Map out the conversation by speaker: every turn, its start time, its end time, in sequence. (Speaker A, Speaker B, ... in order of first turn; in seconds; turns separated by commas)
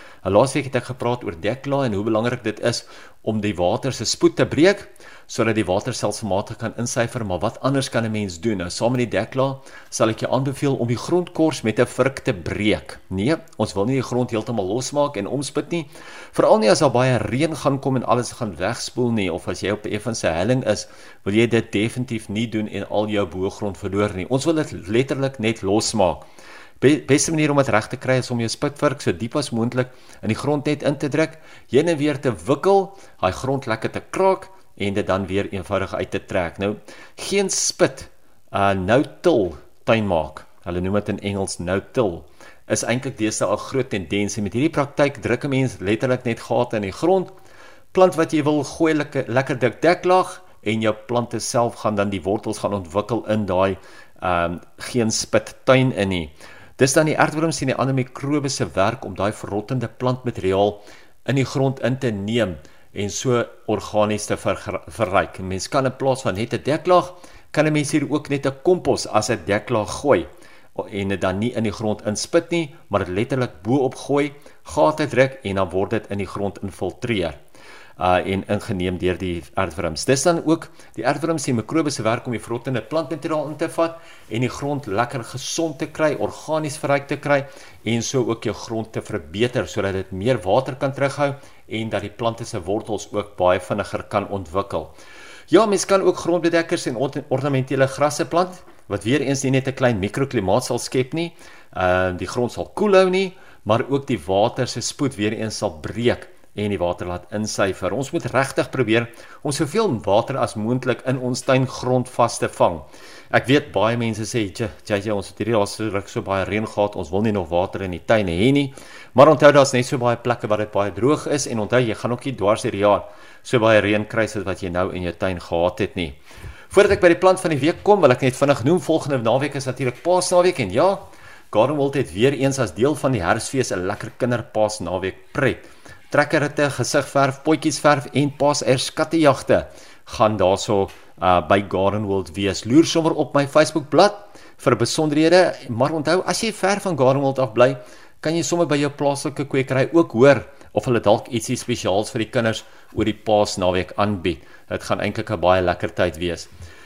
Speaker A: 0.2-26.3, Speaker A: 26.8-47.3, Speaker A: 47.9-77.4, Speaker A: 78.0-95.0, Speaker A: 95.5-126.2, Speaker A: 126.7-156.5